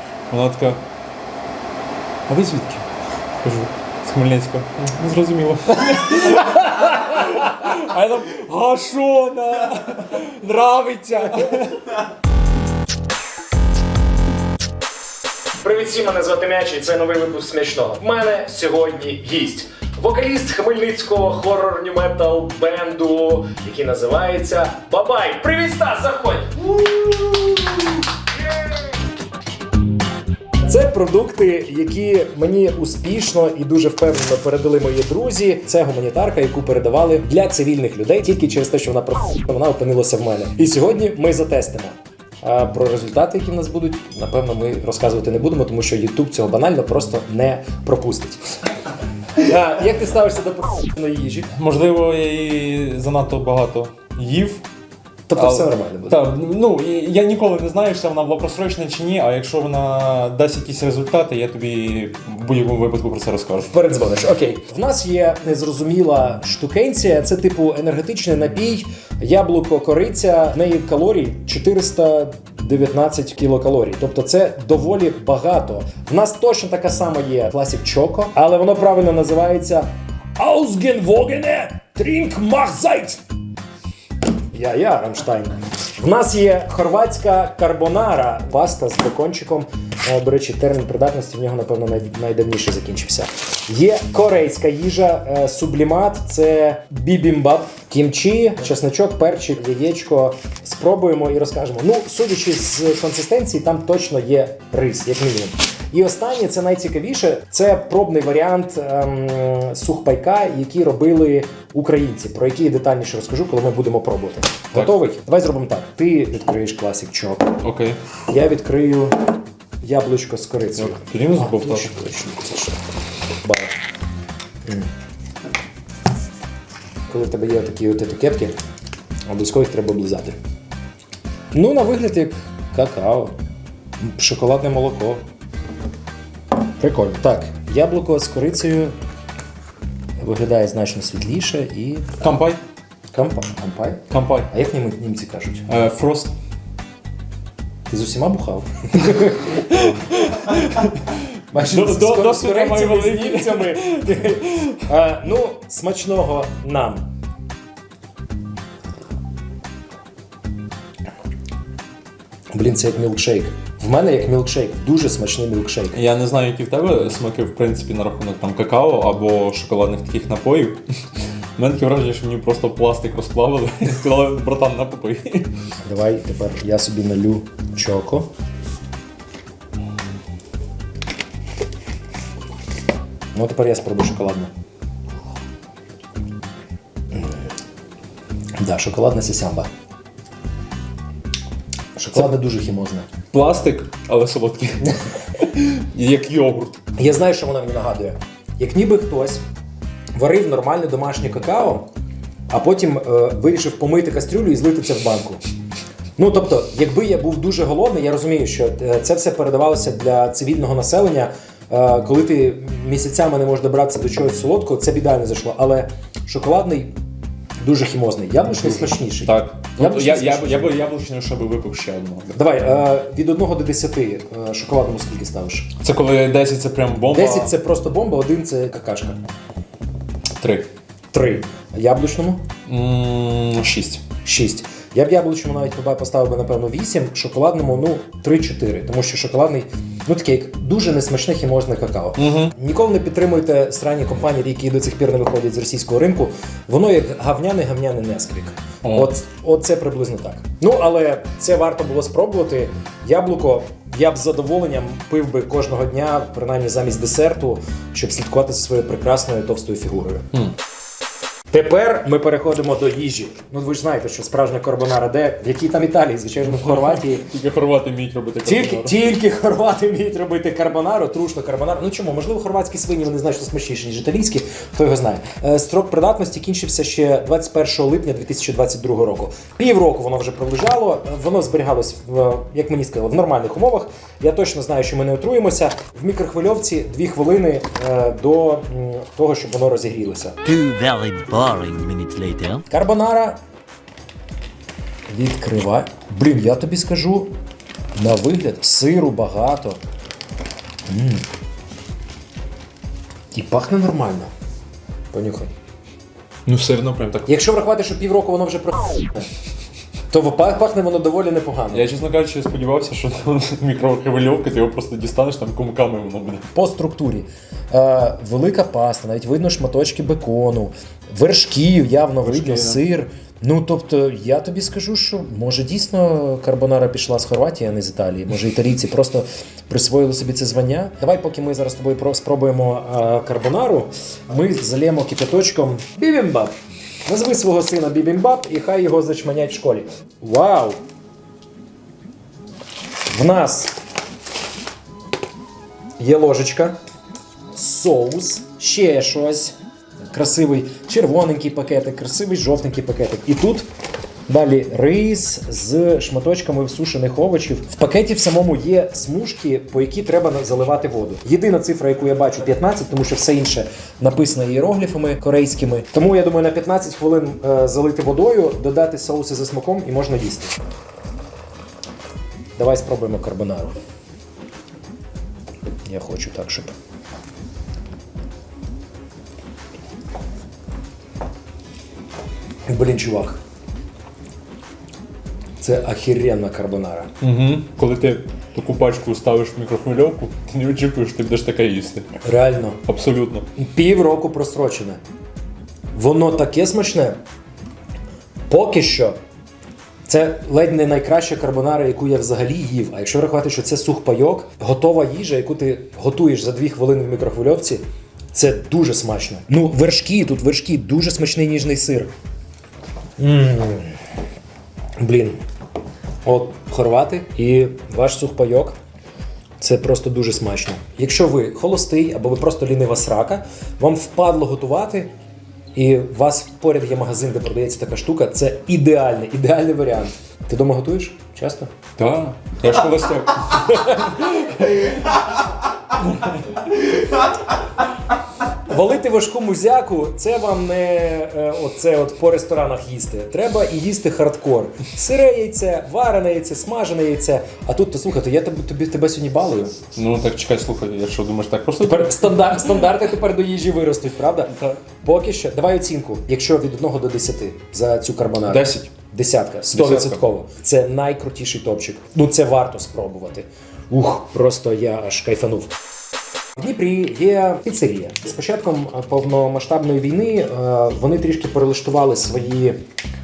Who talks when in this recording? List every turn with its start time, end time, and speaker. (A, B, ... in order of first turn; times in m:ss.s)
0:00.3-0:00.8 A
0:02.3-0:02.8 A
0:03.4-0:12.0 A
0:15.6-0:27.9 B
0:30.6-0:48.5 B
0:49.3-0:51.5 B
0:51.5-0:54.6 A
0:55.3-0:56.2 B
0:55.3-1:03.8 A
1:03.7-1:23.2 B
1:24.5-1:57.6 B
1:57.6-1:58.0 A
1:58.3-2:02.8 B
2:00.8-2:01.9 A
2:03.4-2:03.7 B
2:07.1-2:08.5 B
2:09.3-2:10.4 B
2:11.5-2:13.3 B
2:14.0-2:15.2 B
2:16.8-2:18.9 B
2:20.2-2:22.1 B
2:22.2-2:22.6 A
2:23.1-2:25.7 B
2:24.1-2:24.5 A
2:25.7-2:26.3 A
2:27.9-2:29.6 B
2:29.4-2:34.8 A
2:31.5-2:37.0 B
2:42.5-2:46.0 B
2:45.9-2:50.8 A
2:51.6-2:55.5 A
2:55.8-2:58.3 B
3:03.3-3:04.5 B
3:07.1-3:07.4 B
3:08.6-3:09.7 B
3:12.0-3:13.1 B
3:13.3-3:16.8 A
3:17.0-3:19.4 B
3:20.2-3:21.9 B
3:22.5-3:25.4 B
3:26.2-3:36.9 B
3:37.6-3:40.7 B
3:38.5-3:42.4 A
3:42.3-3:45.7 B
3:45.8-3:47.5 A
3:47.1-3:49.2 B
3:50.4-3:50.7 A
3:51.1-3:52.4 B
3:52.7-3:54.0 A
3:54.2-4:20.3 B
4:02.2-4:02.5 A
4:08.8-4:09.1 A
4:21.5-4:27.3 B
4:26.5-4:29.0 A
4:28.4-4:50.4 B
4:50.4-4:52.6 C
4:52.7-4:53.4 B
4:55.1-4:57.3 B
4:58.0-4:59.8 B
5:00.9-5:01.2 B
5:03.3-5:04.3 B
5:05.1-5:05.5 B
5:06.5-5:07.4 A
5:07.2-5:09.2 B
5:10.1-5:11.9 B
5:11.7-5:16.5 A
5:16.5-5:36.5 B
5:22.2-5:22.8 A
5:37.1-5:40.8 B
5:43.1-5:43.8 B
5:46.0-5:46.8 B
5:47.5-5:49.6 B
5:50.1-5:53.7 B
5:54.3-6:10.6 B
6:12.6-6:13.8 B
6:15.9-6:16.7 B
6:22.7-6:23.4 B
6:25.6-6:27.1 B
6:27.2-6:32.1 A
6:32.2-6:32.8 B
6:32.8-6:33.5 A
6:33.6-6:35.0 B
6:35.9-6:37.2 B
6:38.5-6:39.2 B
6:40.1-6:52.1 B
6:53.2-6:54.0 B
6:55.0-6:55.4 B
6:56.2-6:58.8 B
6:59.6-7:05.1 B
7:05.8-7:11.7 B
7:12.0-7:15.1 A
7:16.0-7:16.6 A
7:18.7-7:29.8 B
7:29.9-7:32.6 A
7:31.8-7:45.7 B
7:34.5-7:34.8 A
7:38.5-7:38.9 A
7:39.7-7:40.2 A
7:46.6-7:52.8 B